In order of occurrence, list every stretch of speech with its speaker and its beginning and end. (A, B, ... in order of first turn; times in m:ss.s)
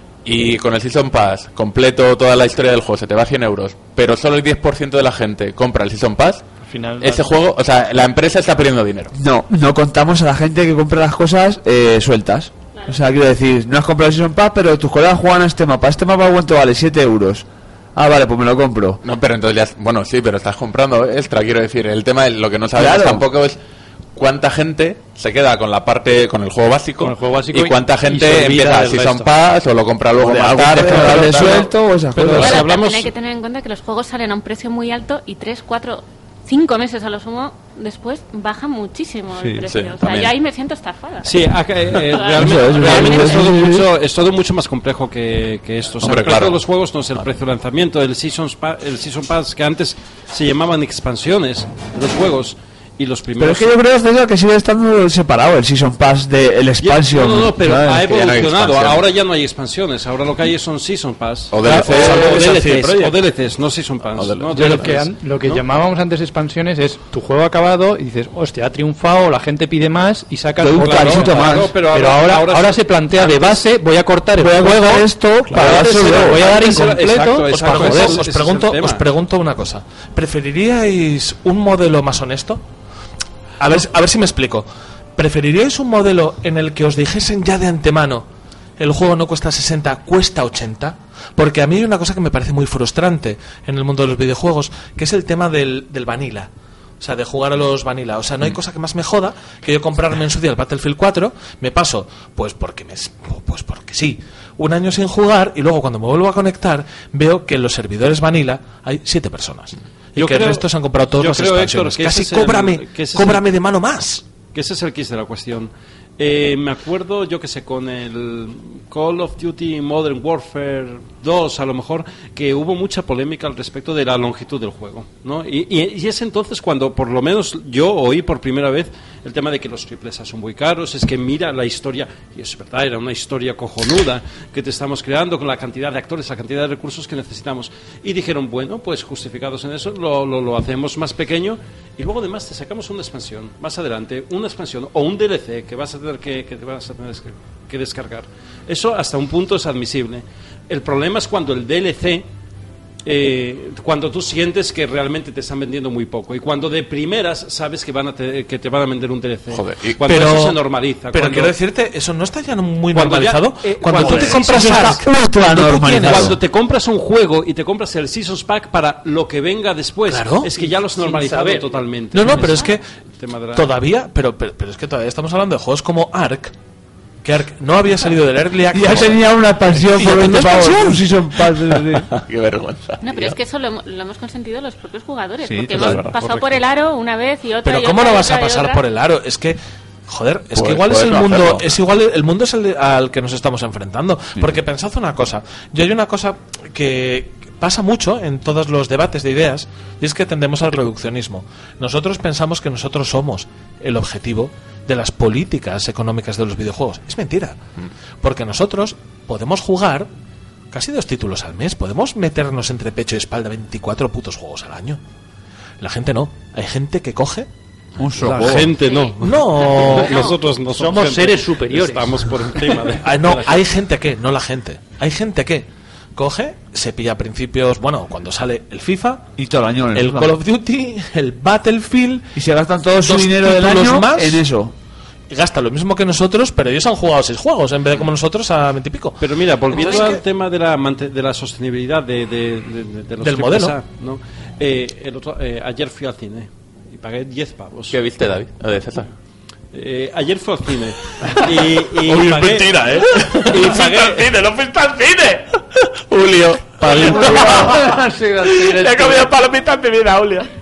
0:00.2-0:06.4 A
0:06.6-0:07.3 B
0:07.0-0:09.1 A
0:09.1-0:19.0 C
0:12.7-0:13.1 D
0:19.0-0:23.6 A
0:22.7-0:23.3 C
0:24.1-0:31.7 A
0:27.0-0:29.3 B
0:30.2-0:32.6 C
0:31.1-0:31.3 B
0:32.2-0:33.1 E
0:32.3-0:32.7 B
0:32.4-0:43.6 D
0:39.6-0:40.3 A
0:41.2-0:53.7 E
0:42.3-0:43.9 C
0:46.0-0:46.6 A
0:53.4-0:58.0 C
0:56.8-1:05.6 E
0:58.0-0:59.1 A
1:01.5-1:02.4 A
1:01.7-1:03.2 F
1:04.1-1:05.0 A
1:04.5-1:18.2 B
1:10.6-1:11.7 C
1:10.7-1:13.7 E
1:14.4-1:16.4 C
1:15.6-1:19.1 E
1:16.8-1:22.6 F
1:23.6-1:28.3 F
1:28.8-1:54.2 F
1:50.2-1:53.6 E
1:54.5-2:32.3 E
2:33.0-2:41.6 E
2:39.5-2:40.1 A
2:40.1-2:46.4 F
2:42.9-2:44.9 E
2:44.0-2:46.4 C
2:45.9-2:53.8 E
2:50.1-2:50.5 F
2:50.9-2:51.7 B
2:52.1-2:52.8 F
2:53.6-2:56.5 F
2:57.2-3:01.1 F
2:58.7-3:02.1 C
3:01.7-3:03.4 A
3:03.0-3:08.8 D
3:05.4-3:06.1 C
3:05.8-3:06.2 A
3:07.6-3:27.6 F
3:10.6-3:11.8 A
3:28.2-3:30.1 F
3:30.7-3:35.0 F
3:35.8-3:37.5 F
3:38.0-3:38.7 C
3:38.1-3:43.7 E
3:38.8-3:40.4 D
3:39.2-3:40.3 F
3:40.8-3:42.7 B
3:43.0-3:49.3 F
3:49.4-3:50.3 C
3:49.9-3:52.3 F
3:52.4-3:54.7 C
3:53.0-3:54.4 F
3:55.3-4:00.2 F
3:59.2-4:08.0 E
4:03.2-4:03.7 F
4:07.9-4:09.1 A
4:09.7-4:14.3 E
4:11.3-4:15.6 F
4:16.1-4:17.4 A
4:16.8-4:20.5 F
4:16.9-4:17.7 E
4:17.2-4:19.3 B
4:18.9-4:19.2 E